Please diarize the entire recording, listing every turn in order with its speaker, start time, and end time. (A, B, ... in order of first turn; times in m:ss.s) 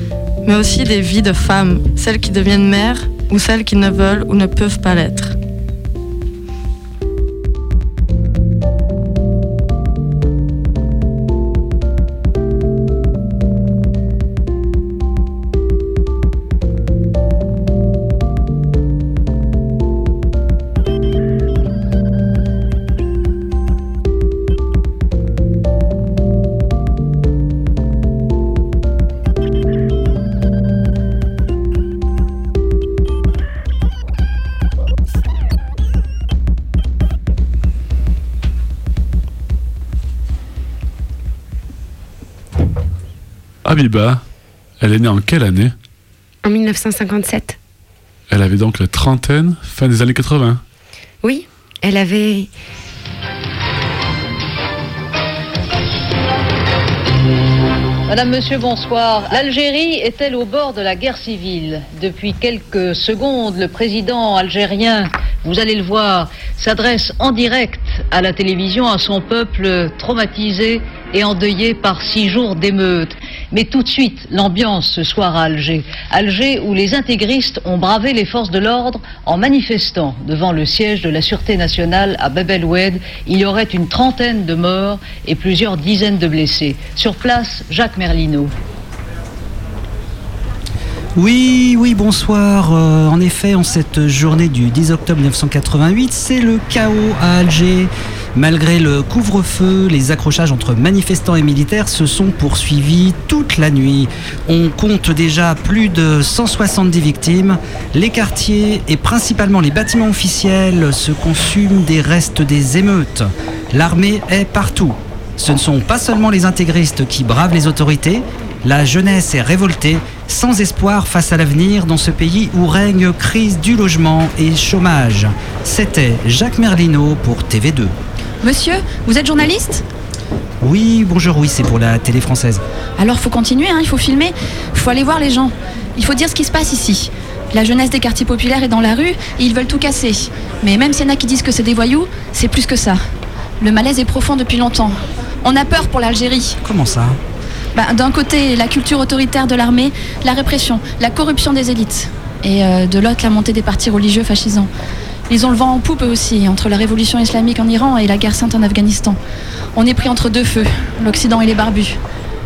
0:00.4-0:05.3 A
0:43.6-0:44.2 B
0:44.8-0:45.7 B
0:46.4-0:47.6 C
0:48.3-0:50.6 B
0:51.2-0:52.5 C
0:58.1-1:28.5 D
1:31.2-2:07.9 E
2:08.4-2:09.8 F
2:10.6-2:12.6 E
2:13.0-2:23.1 F
2:23.6-2:26.6 F
2:26.6-2:27.2 E
2:27.7-2:34.7 F
2:35.3-2:39.2 F
2:39.7-2:42.0 F